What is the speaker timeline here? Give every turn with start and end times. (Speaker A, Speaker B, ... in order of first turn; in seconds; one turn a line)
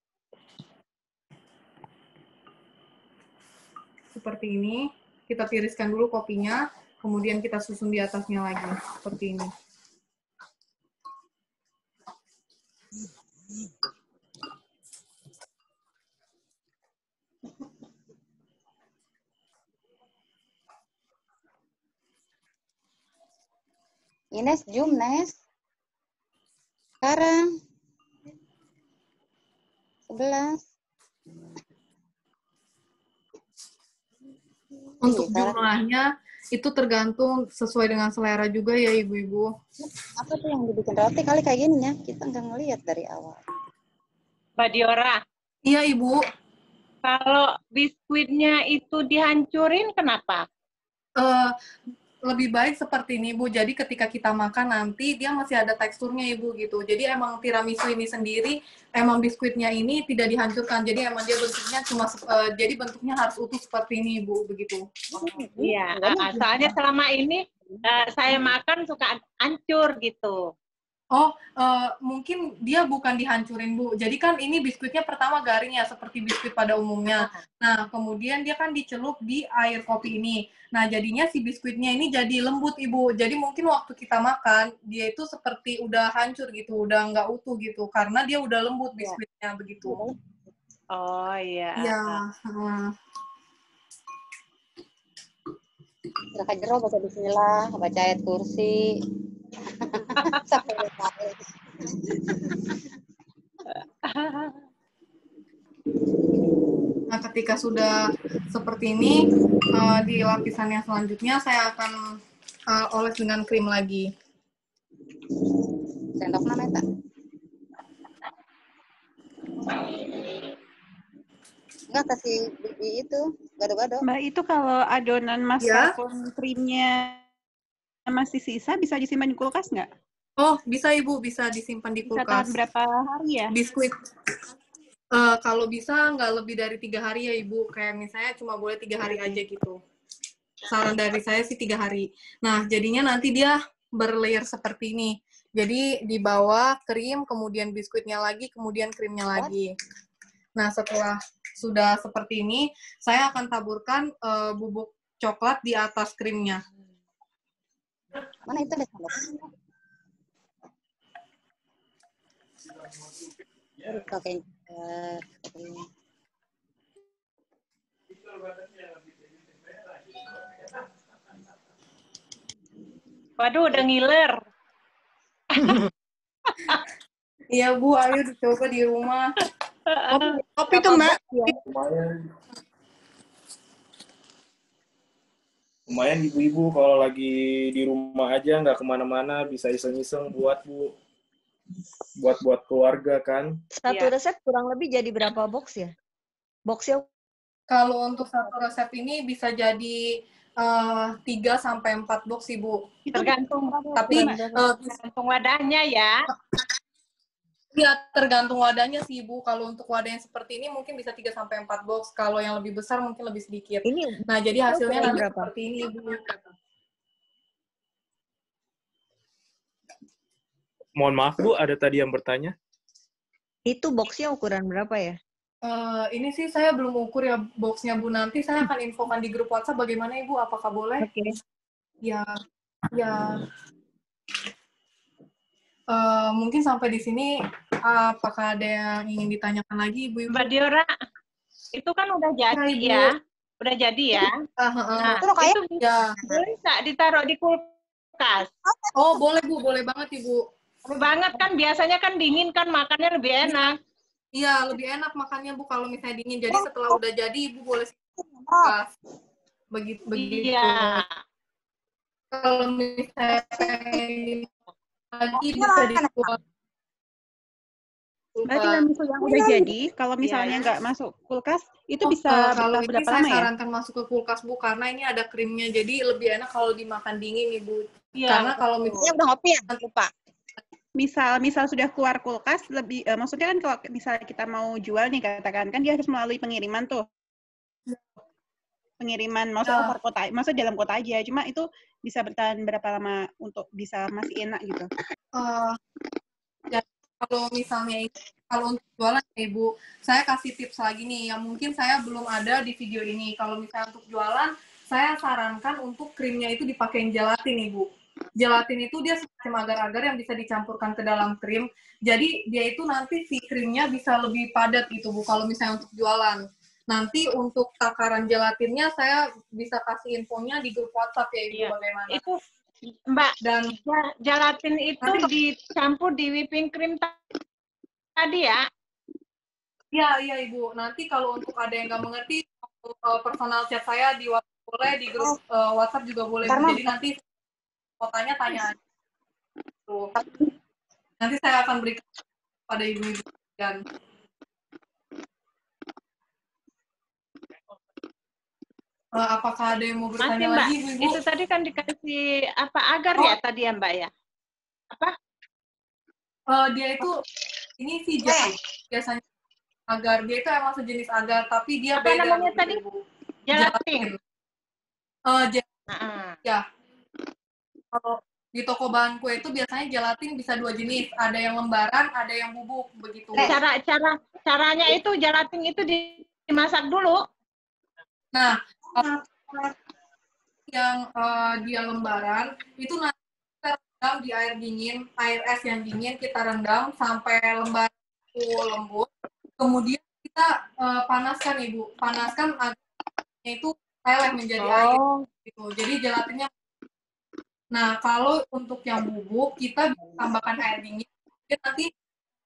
Speaker A: 4.1-9.5
Speaker B: 24.4-25.4
Speaker B: 27.0-27.4
Speaker B: 30.1-30.6
Speaker B: 35.0-35.6
Speaker A: 35.0-39.5
Speaker B: 40.2-43.4
Speaker C: 44.6-45.2
Speaker A: 45.6-46.2
Speaker C: 47.0-50.4
Speaker A: 51.2-51.5
Speaker A: 52.2-64.8
Speaker B: 65.2-65.8
Speaker C: 65.6-70.5
Speaker A: 71.1-90.0
Speaker C: 77.1-77.4
Speaker B: 89.9-90.2
Speaker C: 91.0-92.2
Speaker A: 91.8-93.0
Speaker B: 96.4-98.8
Speaker B: 99.8-101.4
Speaker B: 102.3-102.7
Speaker C: 103.7-104.6
Speaker A: 107.1-109.2
Speaker A: 109.7-114.1
Speaker B: 116.2-116.8
Speaker B: 121.9-124.0
Speaker D: 124.0-127.2
Speaker A: 125.6-125.9
Speaker D: 128.1-129.9
Speaker A: 130.4-132.5
Speaker D: 132.1-133.5
Speaker A: 133.5-133.9
Speaker A: 135.1-139.8
Speaker A: 140.7-149.7
Speaker A: 150.6-156.6
Speaker B: 158.5-159.5
Speaker B: 163.8-165.9
Speaker C: 173.4-174.4
Speaker A: 177.5-179.3
Speaker C: 179.9-181.4
Speaker A: 180.1-181.6
Speaker E: 181.6-182.1
Speaker E: 185.9-190.9
Speaker E: 192.2-193.5
Speaker F: 193.7-195.9
Speaker F: 196.7-197.1
Speaker A: 197.7-202.8
Speaker D: 203.1-204.7
Speaker C: 203.1-206.2
Speaker A: 204.0-204.8
Speaker A: 207.8-216.5
Speaker F: 213.8-214.2
Speaker F: 214.7-215.5
Speaker E: 221.0-222.5
Speaker F: 223.7-225.2
Speaker A: 225.7-231.1
Speaker A: 232.9-233.4
Speaker A: 235.9-237.3
Speaker A: 237.8-240.5
Speaker C: 240.3-240.9
Speaker C: 241.8-243.1
Speaker A: 242.5-243.1
Speaker C: 243.6-244.3
Speaker A: 244.6-245.2
Speaker C: 245.0-248.5
Speaker B: 245.2-245.8
Speaker A: 245.8-246.2
Speaker B: 248.6-249.2
Speaker A: 248.9-250.4
Speaker C: 250.9-253.8
Speaker A: 254.3-257.9
Speaker B: 256.5-257.0
Speaker B: 258.2-258.7
Speaker A: 258.6-258.9
Speaker A: 259.7-261.0
Speaker C: 260.2-261.1
Speaker A: 262.3-264.5
Speaker B: 263.3-264.0
Speaker A: 265.1-266.4
Speaker B: 265.3-266.4
Speaker A: 268.4-268.9
Speaker D: 268.5-273.5
Speaker C: 270.2-270.7
Speaker A: 272.1-279.1
Speaker C: 278.2-279.0
Speaker B: 278.9-280.1
Speaker D: 281.0-287.1
Speaker D: 289.0-294.9
Speaker A: 295.4-295.8
Speaker A: 296.7-322.2
Speaker C: 321.5-322.4
Speaker C: 323.1-327.1
Speaker A: 323.4-323.8
Speaker A: 325.0-325.3
Speaker C: 328.2-328.6
Speaker A: 329.9-337.2
Speaker B: 336.4-336.9
Speaker A: 338.0-338.8
Speaker B: 340.2-340.5
Speaker A: 341.2-342.0
Speaker A: 342.7-343.8
Speaker A: 349.1-351.2
Speaker C: 350.2-354.1
Speaker A: 356.5-357.2
Speaker A: 357.8-359.2
Speaker B: 358.2-358.5
Speaker A: 359.9-363.0
Speaker C: 362.0-362.8
Speaker C: 363.5-364.1
Speaker A: 363.5-364.2
Speaker A: 365.3-365.6
Speaker C: 365.9-366.4
Speaker A: 367.9-373.5
Speaker C: 373.4-377.2
Speaker A: 378.3-379.1
Speaker B: 379.0-379.6
Speaker A: 380.7-389.1
Speaker A: 389.6-392.8
Speaker A: 393.4-396.5
Speaker C: 394.6-395.3
Speaker A: 397.7-401.9